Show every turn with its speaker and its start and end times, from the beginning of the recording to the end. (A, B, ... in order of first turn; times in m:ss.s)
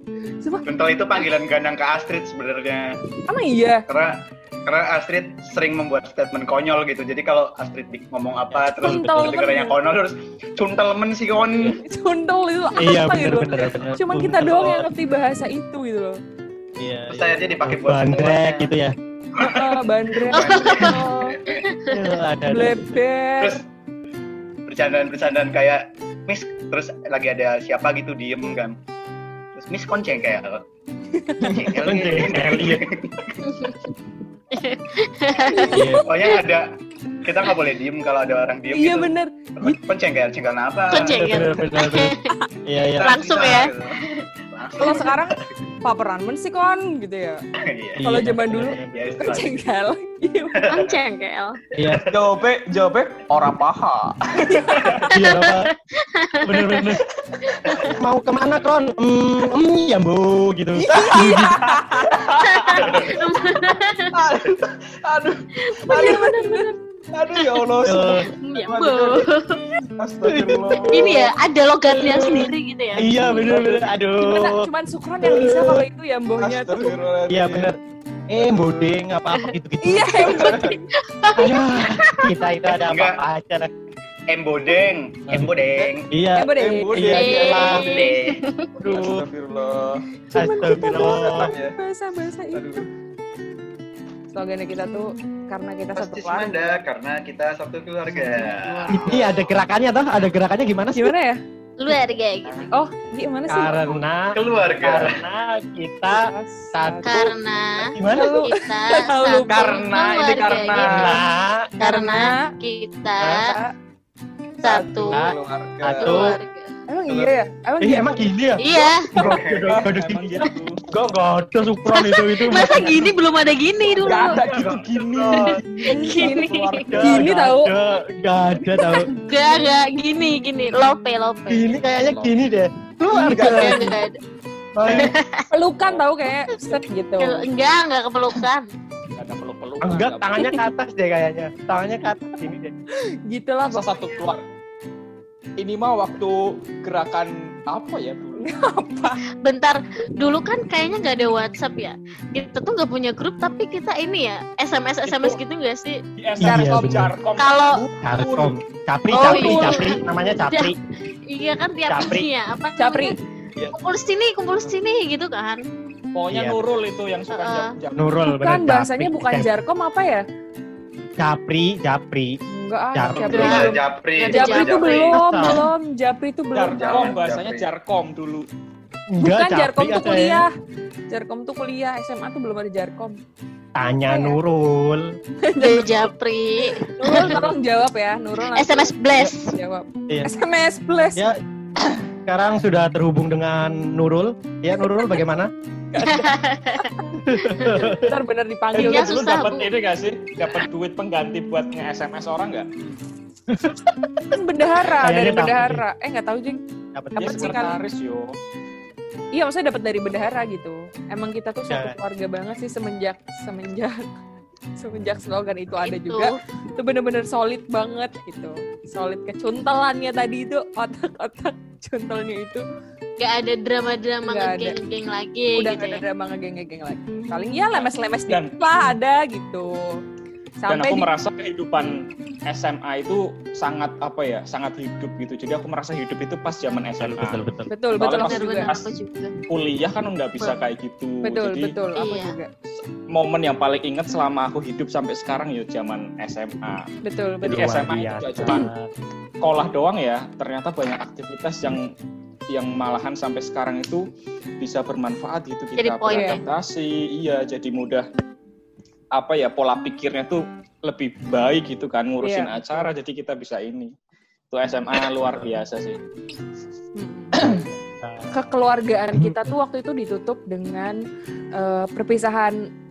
0:00.6-0:02.9 A
0:03.3-0:03.8 B
0:03.9-0:11.8 A
0:08.5-0:09.4 C
0:08.8-0:09.8 B
0:11.4-0:11.8 C
0:11.8-0:16.2 B
0:12.8-0:14.9 C
0:16.8-0:19.0 C
0:17.1-0:18.7 A
0:19.4-0:21.4 B
0:19.4-0:21.7 A
0:20.3-0:21.9 D
0:21.9-0:22.9 C
0:22.5-0:23.6 B
0:23.4-0:23.6 A
0:24.7-0:28.8 A
0:29.6-0:30.6 A
0:31.2-0:31.6 B
0:31.5-0:32.8 C
0:31.5-0:33.4 A
0:33.4-0:33.8 D
0:34.5-0:35.9 D
0:35.4-0:36.1 B
0:35.7-0:36.1 C
0:36.0-0:36.7 A
0:37.2-0:41.5 A
0:38.7-0:39.8 B
0:40.9-0:42.3 D
0:41.1-0:42.2 C
0:42.7-0:43.2 C
0:43.0-0:45.4 A
0:43.0-0:44.2 D
0:44.8-0:47.4 B
0:47.6-0:48.1 A
0:48.0-0:49.5 C
0:48.0-0:50.7 B
0:48.9-0:49.6 A
0:50.6-0:51.0 A
0:50.7-0:51.6 D
0:51.8-0:52.0 C
0:51.8-0:52.2 A
0:52.1-0:55.1 E
0:54.6-0:55.0 B
0:55.1-0:55.7 C
0:55.1-0:56.9 D
0:56.4-0:57.0 C
0:57.4-0:57.9 D
0:57.8-1:01.6 C
1:00.8-1:03.0 E
1:00.8-1:02.1 B
1:02.4-1:04.1 D
1:02.8-1:03.2 A
1:04.1-1:06.3 E
1:05.8-1:06.7 D
1:05.9-1:06.7 B
1:07.1-1:09.3 E
1:07.4-1:07.8 D
1:07.8-1:08.3 C
1:08.4-1:09.6 D
1:09.9-1:11.3 E
1:10.2-1:11.2 C
1:10.9-1:13.3 D
1:12.0-1:14.7 C
1:13.1-1:13.9 E
1:14.2-1:17.0 B
1:15.2-1:15.8 C
1:16.4-1:17.7 E
1:17.3-1:17.8 C
1:18.3-1:20.7 C
1:18.4-1:18.9 E
1:19.8-1:20.8 B
1:20.3-1:20.7 D
1:20.3-1:20.7 E
1:21.2-1:22.3 D
1:21.4-1:23.7 C
1:22.7-1:23.2 A
1:24.3-1:26.1 A
1:25.3-1:27.9 C
1:26.4-1:28.1 B
1:26.5-1:27.8 E
1:27.1-1:28.7 D
1:27.5-1:28.4 A
1:28.8-1:29.2 C
1:28.9-1:30.0 E
1:30.3-1:32.9 B
1:30.4-1:31.5 C
1:30.8-1:31.8 E
1:34.3-1:36.8 B
1:35.9-1:39.2 A
1:38.5-1:39.3 E
1:38.9-1:41.1 C
1:41.0-1:41.4 B
1:41.8-1:42.7 D
1:42.7-1:44.0 B
1:43.5-1:46.2 C
1:44.3-1:45.2 A
1:46.1-1:47.3 B
1:46.7-1:47.3 C
1:47.0-1:51.2 D
1:47.8-1:48.4 C
1:48.1-1:49.8 B
1:49.5-1:51.2 E
1:50.8-1:51.7 C
1:51.8-1:52.5 B
1:51.8-1:53.6 D
1:53.2-1:53.7 B
1:54.6-1:55.3 D
1:54.7-1:56.2 E
1:55.1-1:56.4 C
1:56.0-1:56.7 D
1:56.9-1:58.8 B
1:57.8-1:58.7 C
1:58.6-1:59.1 D
1:59.2-2:03.1 C
1:59.2-1:59.9 A
1:59.6-2:00.8 E
2:01.9-2:04.4 D
2:04.0-2:07.2 E
2:04.3-2:05.0 A
2:05.3-2:09.1 C
2:05.4-2:06.9 D
2:05.8-2:06.2 B
2:07.0-2:07.7 B
2:08.7-2:11.8 D
2:11.5-2:13.9 C
2:12.0-2:12.3 E
2:13.1-2:13.9 E
2:13.2-2:14.2 D
2:14.8-2:15.1 C
2:14.8-2:15.4 D
2:15.5-2:17.5 B
2:17.2-2:18.7 D
2:19.2-2:20.4 E
2:19.8-2:22.7 C
2:23.3-2:24.2 B
2:23.6-2:24.4 E
2:25.6-2:28.5 E
2:28.4-2:29.2 B
2:29.4-2:36.0 D
2:35.0-2:35.4 E
2:36.2-2:38.5 E
2:36.4-2:37.1 C
2:36.4-2:36.9 B
2:37.4-2:37.8 D
2:38.0-2:40.8 C
2:39.1-2:40.8 D
2:39.1-2:40.0 B
2:41.3-2:43.1 D
2:41.9-2:42.3 C
2:42.8-2:43.2 B
2:43.7-2:45.6 D
2:46.2-2:48.1 E
2:46.3-2:46.6 C
2:47.3-2:47.8 D
2:48.0-2:49.5 C
2:48.2-2:50.2 B
2:51.2-2:52.4 C
2:52.5-2:57.2 B
2:52.9-2:53.7 C
2:53.1-2:55.2 A
2:53.3-2:55.1 D
2:55.2-2:55.6 C
2:56.6-2:58.5 E
2:56.6-2:57.7 A
2:59.1-3:00.5 C
2:59.2-3:00.5 B
3:01.1-3:03.2 B
3:03.8-3:05.1 C
3:04.1-3:04.4 B
3:05.4-3:05.9 B
3:05.6-3:07.4 D
3:06.8-3:11.3 B
3:07.1-3:07.4 C
3:08.5-3:09.6 D
3:12.3-3:15.5 C
3:15.9-3:16.9 B
3:16.0-3:16.9 D
3:17.2-3:18.2 C
3:17.6-3:17.9 D
3:17.9-3:19.4 B
3:18.7-3:22.7 E
3:18.8-3:19.7 D
3:23.5-3:24.4 C
3:24.3-3:26.6 B
3:25.0-3:25.8 C
3:27.0-3:27.8 C
3:27.2-3:27.8 B
3:27.2-3:28.4 E
3:29.3-3:34.1 B
3:31.7-3:32.0 C
3:34.8-3:42.6 B
3:35.8-3:36.4 D
3:43.2-3:46.0 D
3:44.2-3:44.8 B
3:45.6-3:50.0 B
3:47.7-3:48.6 E
3:50.6-3:51.1 B
3:50.7-3:58.9 E
3:57.0-3:57.7 C
3:57.7-3:58.7 B
3:58.0-3:59.4 D
3:59.5-4:01.8 E
4:01.2-4:02.5 B
4:02.0-4:02.4 D
4:03.1-4:06.9 E
4:07.0-4:07.8 B
4:07.4-4:08.9 C
4:07.5-4:08.7 E
4:09.4-4:11.9 E
4:12.5-4:14.1 E
4:14.6-4:18.1 E
4:15.8-4:16.4 D
4:16.1-4:16.4 B
4:19.1-4:23.9 E
4:22.2-4:22.9 B
4:24.5-4:26.0 E
4:27.0-4:27.4 B
4:27.4-4:27.7 E
4:27.5-4:28.5 C
4:28.3-4:31.0 B
4:31.6-4:32.6 B